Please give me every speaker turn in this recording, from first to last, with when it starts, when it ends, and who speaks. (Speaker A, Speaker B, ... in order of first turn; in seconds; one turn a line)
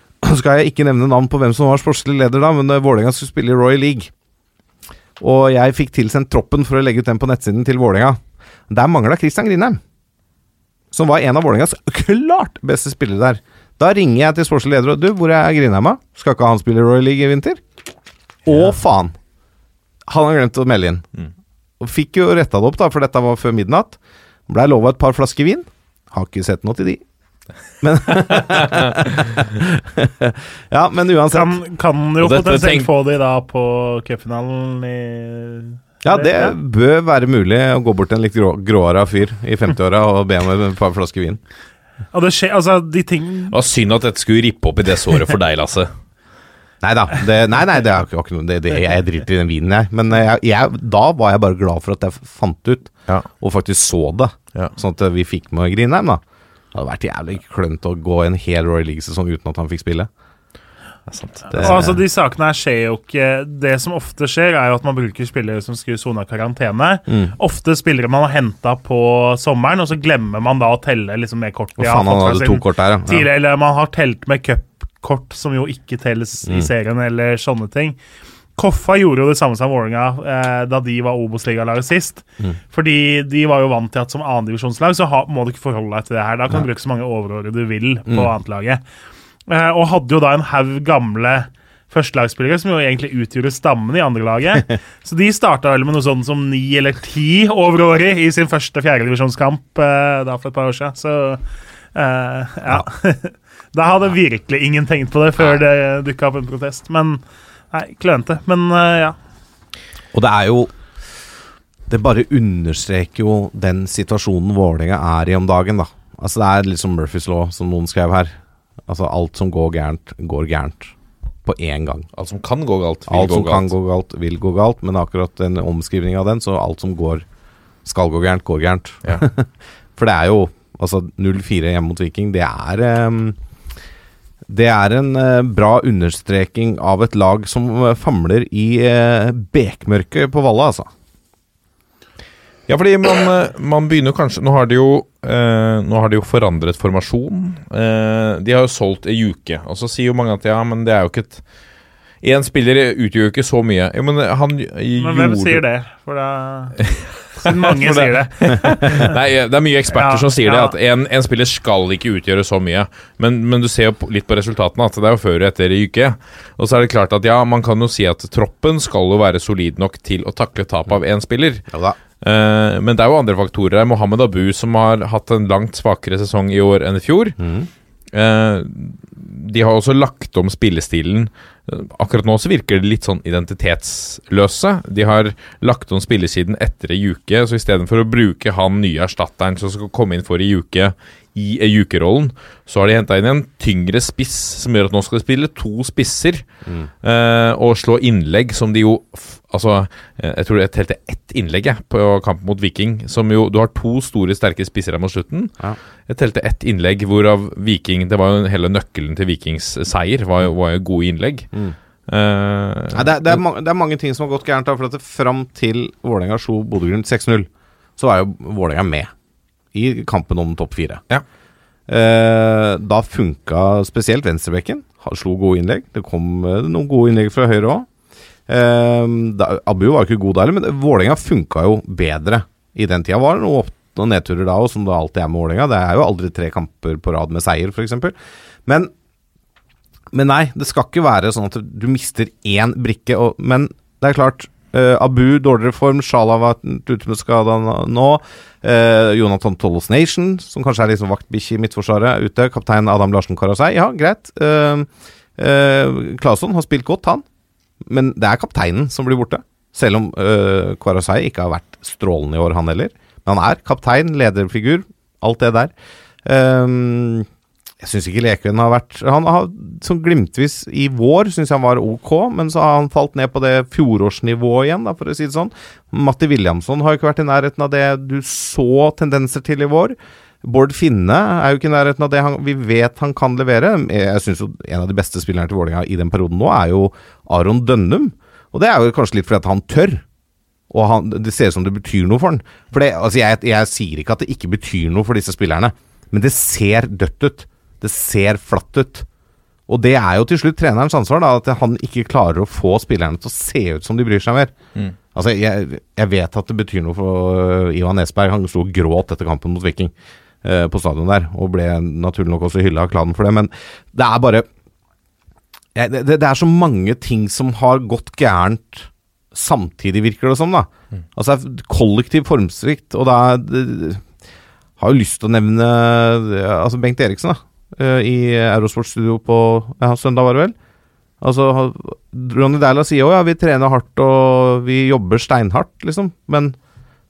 Speaker A: 0.2-4.1
Speaker A: 5.2-9.8
Speaker A: 10.9-17.6
Speaker A: 18.5-19.2
Speaker A: 20.1-21.1
Speaker A: 21.8-27.0
Speaker A: 27.8-31.6
Speaker B: 28.4-29.4
Speaker C: 31.3-36.5
Speaker B: 32.2-32.9
Speaker A: 36.0-41.4
Speaker C: 42.1-43.5
Speaker B: 43.5-45.9
Speaker A: 46.8-56.2
Speaker A: 56.7-60.1
Speaker B: 61.1-61.7
Speaker C: 61.5-78.0
Speaker A: 61.5-62.0
Speaker A: 67.1-67.3
Speaker A: 71.8-73.3
Speaker C: 78.6-88.8
Speaker C: 89.5-101.4
Speaker C: 101.9-109.2
Speaker A: 110.1-110.7
Speaker A: 111.9-118.4
Speaker A: 118.9-120.9
Speaker A: 121.5-122.1
Speaker B: 122.2-123.7
Speaker A: 123.1-127.2
Speaker A: 127.8-133.4
Speaker A: 134.5-140.9
Speaker B: 142.7-151.4
Speaker B: 152.2-155.6
Speaker C: 155.0-156.8
Speaker B: 156.9-171.7
Speaker C: 157.3-159.2
Speaker C: 159.9-160.7
Speaker A: 171.7-172.0
Speaker B: 172.2-177.4
Speaker A: 177.4-177.7
Speaker B: 178.1-196.4
Speaker A: 196.7-196.9
Speaker B: 197.0-205.5
Speaker B: 206.1-211.5
Speaker B: 212.1-213.4
Speaker A: 212.9-219.1
Speaker A: 219.7-221.0
Speaker A: 221.9-227.9
Speaker A: 228.5-238.1
Speaker A: 238.7-238.9
Speaker A: 240.1-257.2
Speaker A: 257.9-265.7
Speaker A: 266.2-267.3
Speaker A: 267.8-290.0
Speaker A: 290.7-299.1
Speaker A: 299.7-304.5
Speaker A: 305.1-314.5
Speaker A: 315.8-324.1
Speaker A: 324.8-330.6
Speaker A: 331.2-336.6